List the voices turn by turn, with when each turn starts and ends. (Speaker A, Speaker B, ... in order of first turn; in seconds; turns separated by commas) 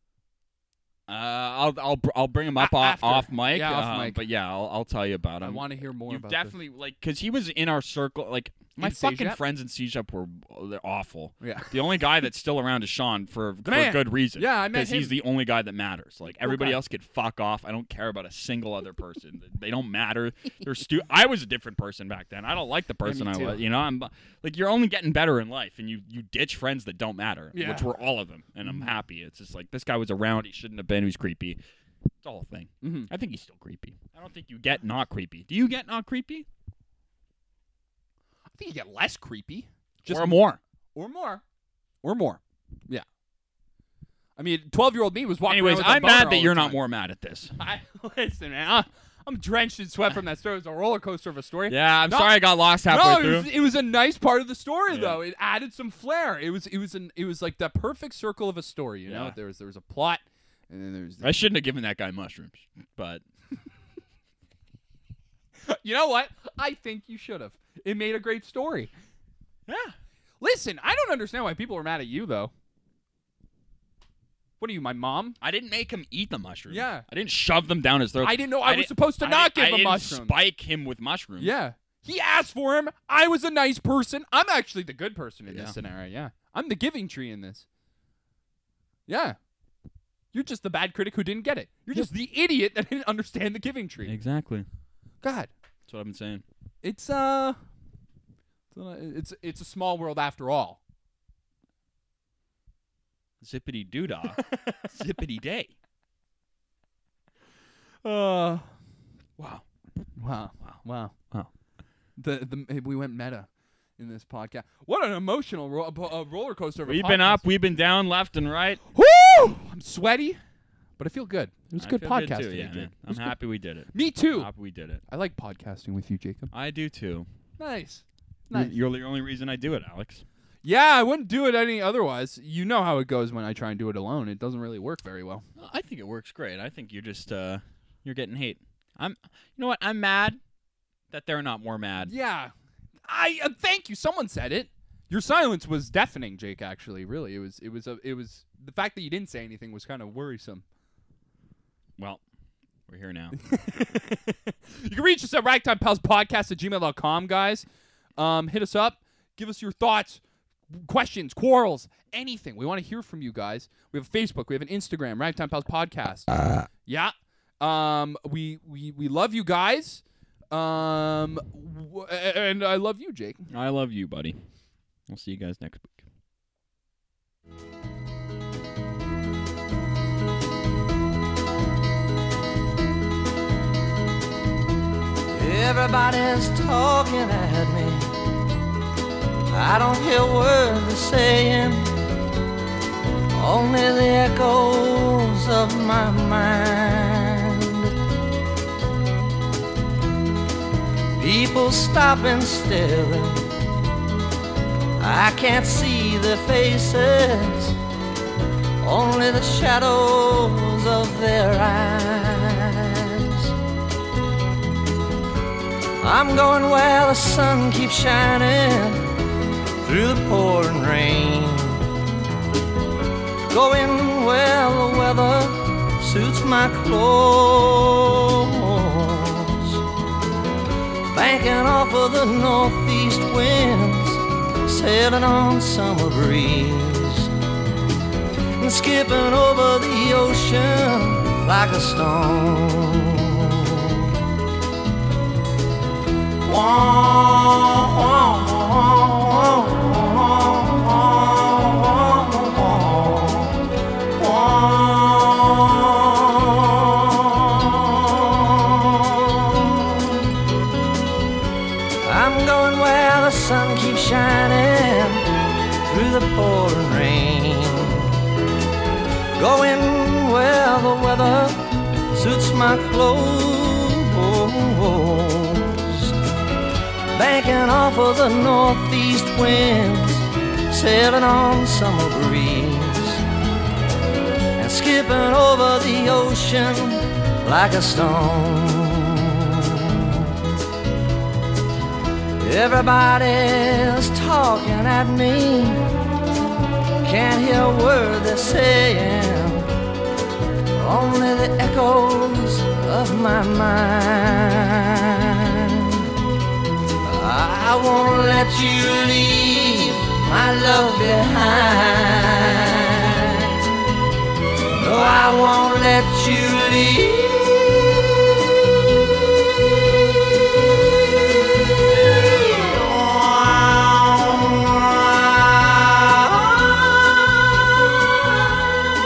Speaker A: 1.1-31.6, Speaker B: 2.5-4.2, Speaker B: 5.4-6.6, Speaker B: 8.8-9.4, Speaker B: 11.4-11.7, Speaker B: 13.6-15.2, Speaker B: 16.4-16.8, Speaker B: 23.0-23.6, Speaker B: 27.5-27.9, Speaker A: 32.2-36.5, Speaker B: 32.8-33.1, Speaker B: 38.6-41.4, Speaker A: 40.1-40.6, Speaker B: 42.0-43.0, Speaker B: 44.4-46.8, Speaker A: 45.5-47.5, Speaker B: 47.6-61.3, Speaker A: 51.7-53.5, Speaker A: 54.9-55.2, Speaker A: 59.0-59.3, Speaker A: 61.2-63.2, Speaker B: 65.6-68.9, Speaker A: 69.7-69.9, Speaker B: 70.4-72.5, Speaker B: 74.6-75.4, Speaker A: 75.4-81.5, Speaker B: 76.7-77.0, Speaker B: 78.2-80.4, Speaker B: 81.4-87.7, Speaker A: 85.5-85.7, Speaker B: 89.1-89.4, Speaker B: 90.3-94.1, Speaker A: 94.0-94.7, Speaker B: 95.2-95.5, Speaker A: 95.9-96.4, Speaker B: 96.8-97.6, Speaker B: 98.7-100.8, Speaker A: 103.4-105.7, Speaker B: 104.5-104.8, Speaker B: 108.0-108.7, Speaker A: 109.4-109.6, Speaker B: 110.2-111.2, Speaker B: 112.2-117.4, Speaker A: 116.8-118.8, Speaker B: 118.9-120.4, Speaker B: 121.0-123.3, Speaker A: 121.8-125.0, Speaker B: 123.9-124.5, Speaker B: 125.1-126.5, Speaker A: 126.5-127.3, Speaker B: 127.6-128.7, Speaker A: 128.5-130.2, Speaker B: 130.6-135.4, Speaker A: 135.6-140.4, Speaker A: 141.1-142.1, Speaker B: 142.0-142.5, Speaker B: 143.0-150.6, Speaker A: 152.9-153.3, Speaker B: 153.3-157.7, Speaker B: 158.2-166.3, Speaker B: 166.8-173.5, Speaker A: 173.5-174.4, Speaker A: 175.1-176.0, Speaker C: 185.3-188.1, Speaker C: 189.5-191.9, Speaker C: 193.3-197.9, Speaker C: 201.2-203.5, Speaker C: 205.0-207.7, Speaker C: 208.8-213.5, Speaker C: 216.0-219.0, Speaker C: 219.8-221.9, Speaker C: 223.5-229.8, Speaker C: 231.1-237.3, Speaker C: 238.6-244.2, Speaker C: 246.4-260.4, Speaker C: 262.0-265.2, Speaker C: 265.9-268.2, Speaker C: 269.4-276.1, Speaker C: 277.1-283.2, Speaker C: 284.6-290.3, Speaker C: 292.4-295.8, Speaker C: 297.0-299.7, Speaker C: 300.8-306.0, Speaker C: 307.0-313.6, Speaker C: 314.8-318.3, Speaker C: 321.9-327.6